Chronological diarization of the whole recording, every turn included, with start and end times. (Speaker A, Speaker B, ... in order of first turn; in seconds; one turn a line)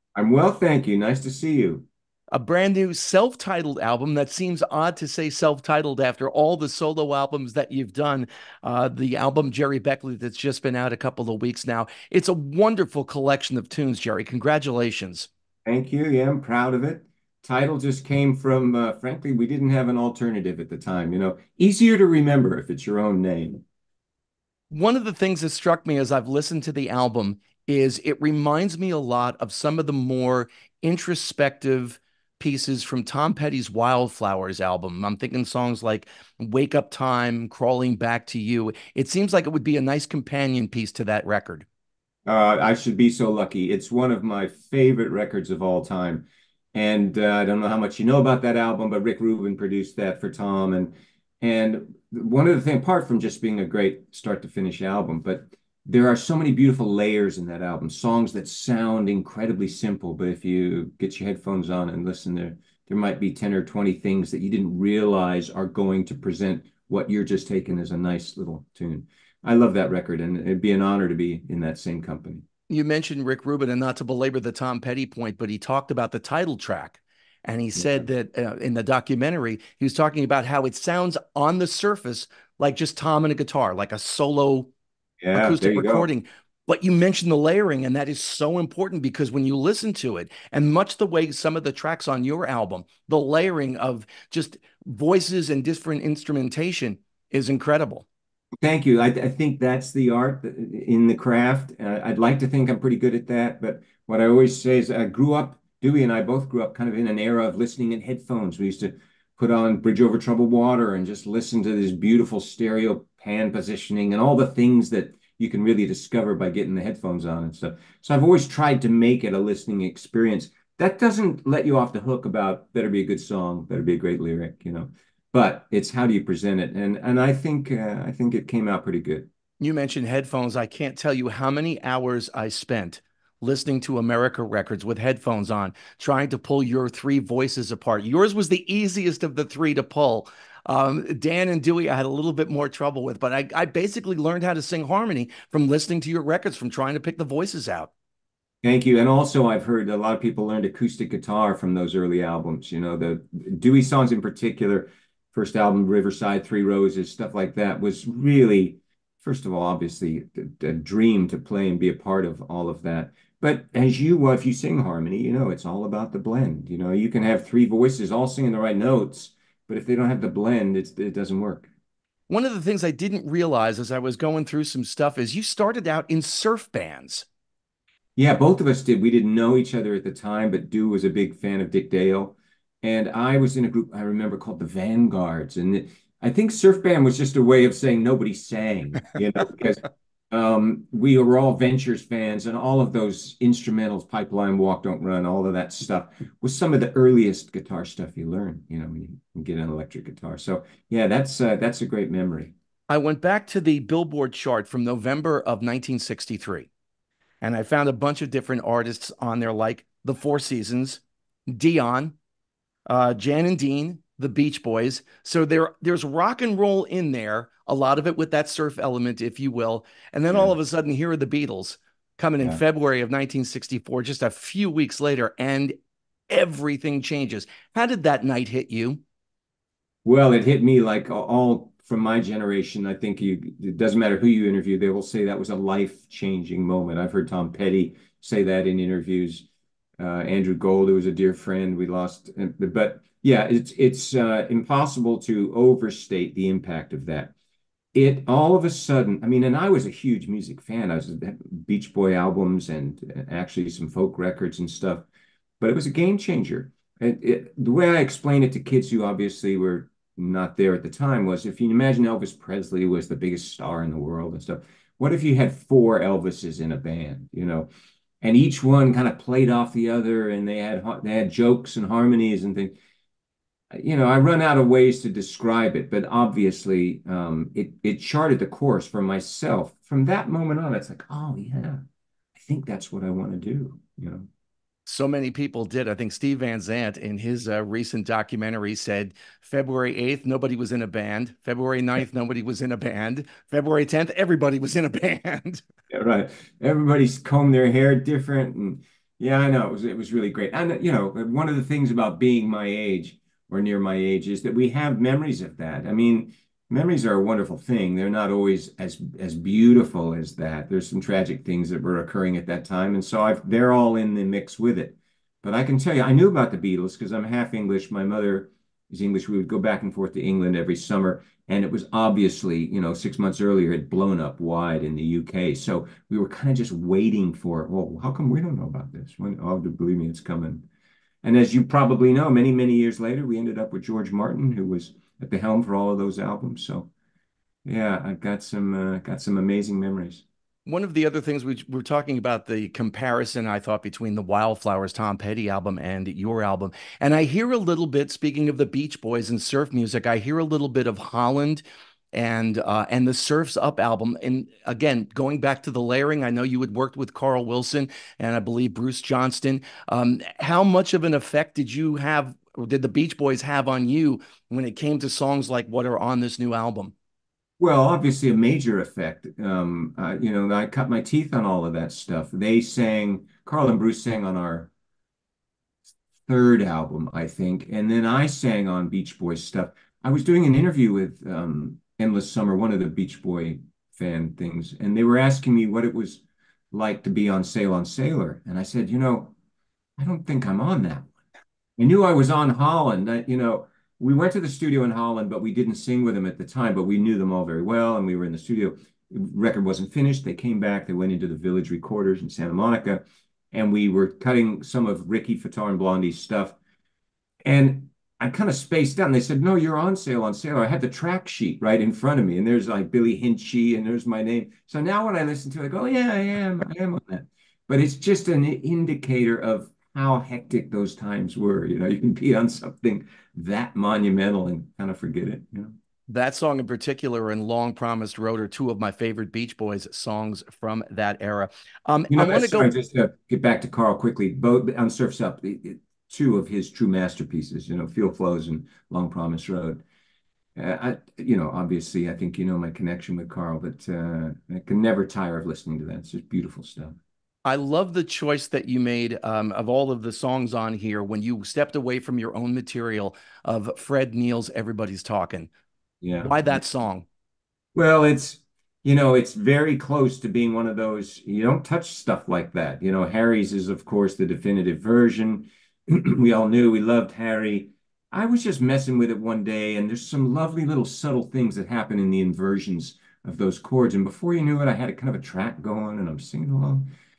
Speaker A: 0.2-1.9
Speaker B: 2.3-15.3
Speaker A: 15.7-23.6
Speaker B: 24.7-41.7
Speaker A: 42.3-72.5
Speaker B: 72.7-84.7
Speaker A: 77.8-78.1
Speaker A: 85.2-86.1
Speaker B: 85.3-98.1
Speaker A: 98.6-129.3
Speaker B: 129.6-147.9
Speaker A: 148.6-171.7
Speaker B: 172.3-177.3
Speaker A: 178.2-202.5
Speaker B: 202.9-206.7
Speaker B: 207.4-212.2
Speaker B: 212.9-225.8
Speaker B: 226.3-229.0
Speaker A: 230.1-239.5
Speaker A: 240.0-247.3
Speaker A: 247.9-255.1
Speaker A: 255.6-267.7
Speaker A: 268.2-272.8
Speaker A: 273.7-281.8
Speaker A: 282.4-284.3
Speaker B: 284.9-295.6
Speaker A: 295.9-330.7
Speaker A: 331.2-336.9
Speaker A: 337.6-340.2
Speaker B: 340.7-366.9
Speaker A: 367.6-374.7
Speaker A: 376.3-389.4
Speaker A: 390.0-391.1
Speaker A: 391.8-406.6
Speaker A: 407.4-425.7
Speaker B: 426.1-432.7
Speaker A: 432.1-439.8
Speaker A: 440.6-447.0
Speaker B: 447.4-455.5
Speaker A: 456.0-456.6
Speaker B: 456.2-457.1
Speaker A: 457.8-476.9